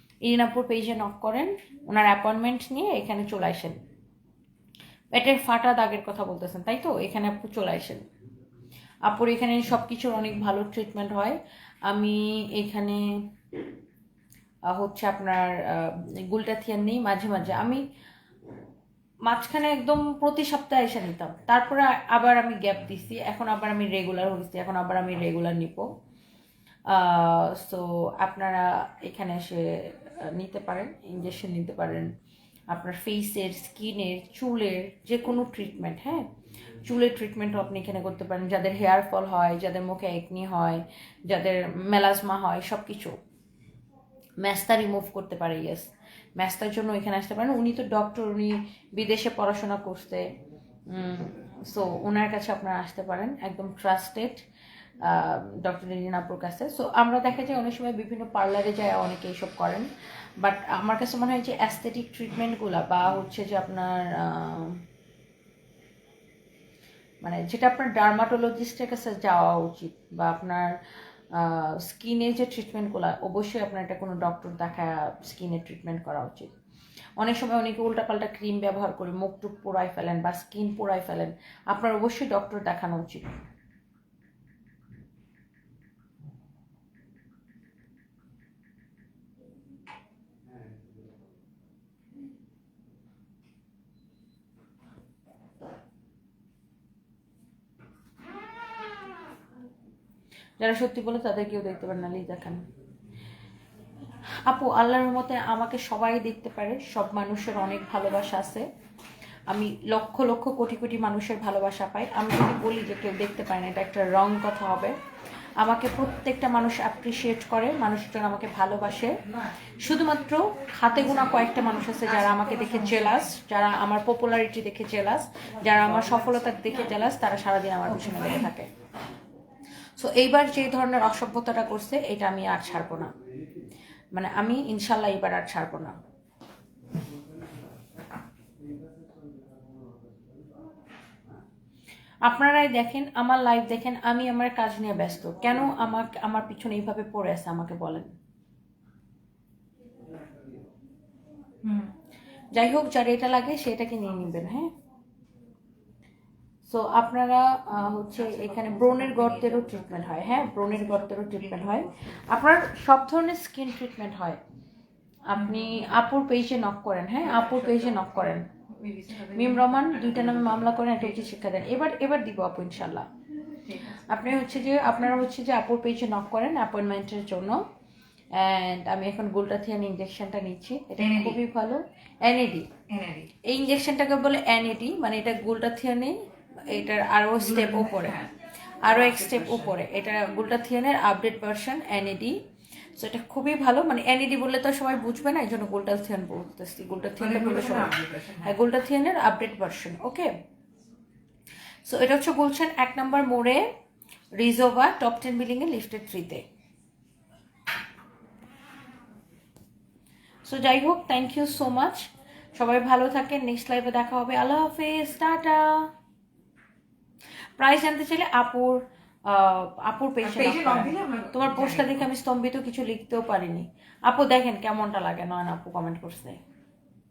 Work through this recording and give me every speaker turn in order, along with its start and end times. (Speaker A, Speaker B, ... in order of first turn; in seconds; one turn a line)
Speaker A: 0.2-3.8
Speaker A: 5.1-8.0
Speaker A: 9.1-13.0
Speaker A: 14.7-17.8
Speaker A: 19.3-25.9
Speaker A: 26.9-32.1
Speaker A: 32.7-36.3
Speaker A: 36.8-43.2
Speaker A: 44.4-50.2
Speaker A: 50.9-54.4
Speaker A: 55.0-64.8
Speaker A: 67.2-70.7
Speaker A: 71.3-76.5
Speaker A: 77.2-83.4
Speaker A: 100.6-102.6
Speaker A: 104.5-108.7
Speaker A: 109.5-115.0
Speaker A: 115.6-119.2
Speaker A: 119.8-128.7
Speaker B: 122.0-123.3
Speaker B: 125.7-126.6
Speaker B: 128.0-128.4
Speaker A: 130.0-133.1
Speaker A: 134.1-135.9
Speaker A: 142.3-148.1
Speaker B: 151.6-151.9
Speaker A: 152.5-154.7
Speaker A: 156.7-164.4
Speaker B: 158.1-162.2
Speaker A: 165.3-168.5
Speaker B: 165.4-165.9
Speaker B: 167.2-171.2
Speaker A: 169.3-173.1
Speaker B: 173.7-174.7
Speaker A: 174.1-177.6
Speaker A: 178.3-182.7
Speaker B: 181.0-181.4
Speaker B: 182.9-183.3
Speaker A: 183.5-186.2
Speaker A: 186.7-188.3
Speaker B: 187.4-188.3
Speaker A: 188.8-192.3
Speaker B: 188.9-189.8
Speaker A: 193.0-200.3
Speaker B: 197.2-198.6
Speaker A: 201.9-203.7
Speaker A: 204.3-206.4
Speaker A: 210.5-215.9
Speaker A: 217.6-226.4
Speaker B: 220.2-222.1